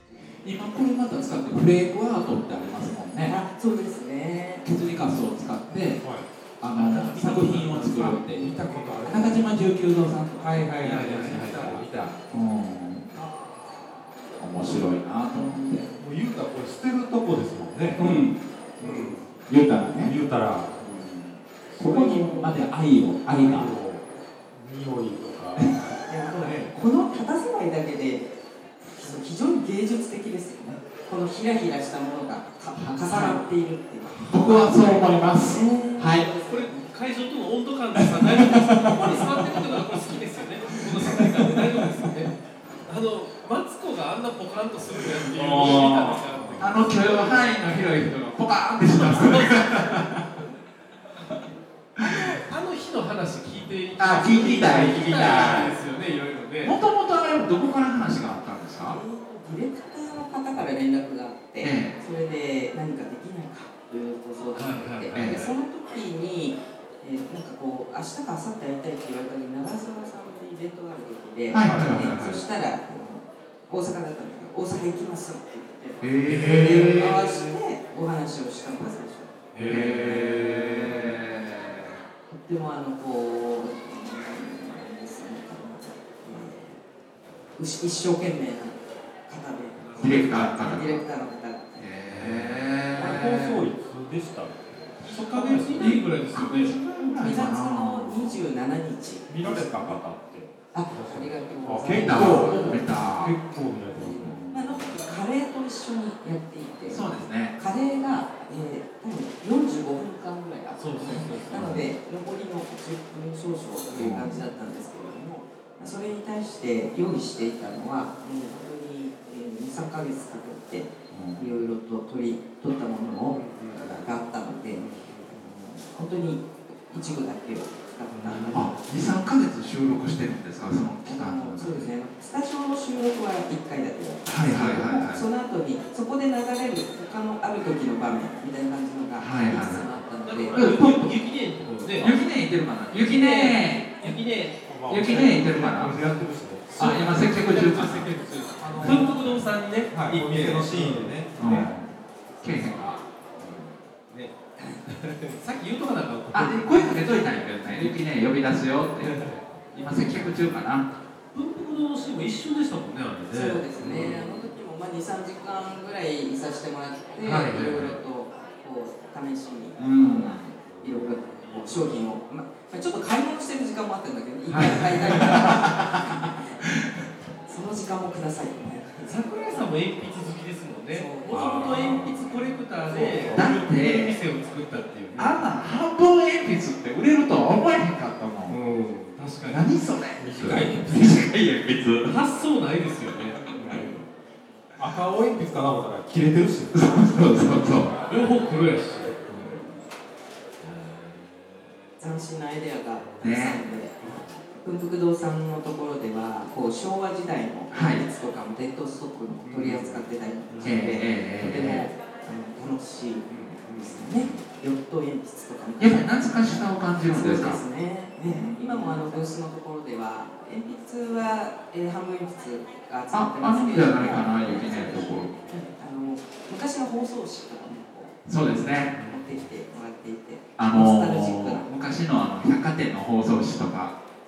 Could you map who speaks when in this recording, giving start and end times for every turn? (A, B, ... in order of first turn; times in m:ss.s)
0:00.4-0:03.4 A
0:03.2-0:04.6 B
0:04.6-0:08.5 A
0:06.0-0:06.2 C
0:06.6-0:09.0 D
0:07.3-0:09.6 C
0:09.0-0:13.1 A
0:10.4-0:12.1 C
0:10.8-0:11.7 D
0:13.1-0:13.5 C
0:14.4-0:15.8 A
0:15.5-0:15.9 B
0:15.9-0:18.1 C
0:18.0-0:20.2 A
0:18.8-0:19.2 C
0:18.8-0:19.1 D
0:20.0-0:20.8 C
0:20.8-0:23.7 A
0:21.7-0:22.7 C
0:23.2-0:25.8 C
0:26.1-0:36.9 B
0:26.4-0:26.7 C
0:32.8-0:33.4 A
0:34.1-0:36.3 A
0:36.2-0:42.3 D
0:38.0-0:39.8 A
0:41.0-0:41.6 A
0:42.8-0:47.3 D
0:45.3-0:50.2 A
0:46.2-0:46.8 C
0:48.9-0:50.0 D
0:52.0-0:56.8 D
0:54.0-0:55.7 A
0:54.7-0:55.7 C
0:56.6-0:59.0 A
0:58.9-1:19.5 B
1:01.6-1:02.0 A
1:04.5-1:05.4 D
1:05.1-1:05.5 A
1:11.5-1:12.4 A
1:11.6-1:12.1 C
1:16.0-1:17.2 A
1:16.3-1:17.0 D
1:16.3-1:17.1 C
1:19.5-1:21.0 D
1:19.5-1:21.2 C
1:19.6-1:22.0 A
1:22.3-1:26.8 B
1:27.6-1:31.8 B
1:29.8-1:30.3 D
1:30.0-1:31.0 A
1:31.8-1:33.6 A
1:32.1-1:36.0 C
1:35.1-1:36.7 D
1:35.8-1:38.4 A
1:36.3-1:40.0 B
1:39.3-1:44.4 C
1:40.7-1:42.8 B
1:41.9-1:43.4 A
1:44.0-2:08.8 B
1:44.1-1:44.8 A
1:46.9-1:47.5 A
1:50.8-1:51.8 D
1:51.5-1:51.8 A
1:53.9-1:54.4 A
2:01.1-2:01.5 A
2:03.3-2:03.9 D
2:04.8-2:05.3 D
2:08.2-2:08.6 D
2:08.5-2:11.9 A
2:11.0-2:20.6 B
2:14.2-2:15.2 A
2:19.2-2:19.9 A
2:20.2-2:22.2 D
2:20.5-2:21.1 A
2:22.0-2:24.2 A
2:22.9-2:25.3 D
2:24.6-2:27.1 C
2:24.9-2:26.0 A
2:26.8-2:28.1 A
2:26.8-2:31.7 D
2:28.6-2:29.2 C
2:28.8-2:29.1 A
2:29.9-2:31.7 C
2:31.4-2:33.7 A
2:34.8-2:38.0 D
2:36.3-2:40.9 A
2:39.0-2:40.3 D
2:41.3-2:44.4 D
2:43.3-2:56.6 B
2:47.2-2:48.0 D
2:49.8-2:50.4 A
2:50.7-2:51.8 C
2:54.5-2:55.2 D
2:54.5-2:55.9 A
2:57.5-2:59.6 B
2:59.0-3:05.4 D
3:00.9-3:01.6 B
3:01.3-3:03.5 C
3:03.3-3:04.2 A
3:05.1-3:08.6 A
3:08.5-3:09.7 D
3:09.4-3:12.1 A
3:10.2-3:11.3 C
3:12.0-3:13.9 D
3:13.5-3:13.9 A
3:14.8-3:17.4 C
3:16.7-3:17.9 A
3:18.1-3:19.5 D
3:19.3-3:19.8 B
3:20.6-3:21.6 D
3:22.0-3:51.7 B
3:23.2-3:23.6 A
3:27.7-3:28.0 A
3:29.4-3:30.7 D
3:30.6-3:31.9 A
3:33.3-3:34.4 D
3:35.8-3:37.6 A
3:38.2-3:38.9 A
3:43.1-3:45.3 A
3:48.2-3:49.0 A
3:50.6-3:54.0 A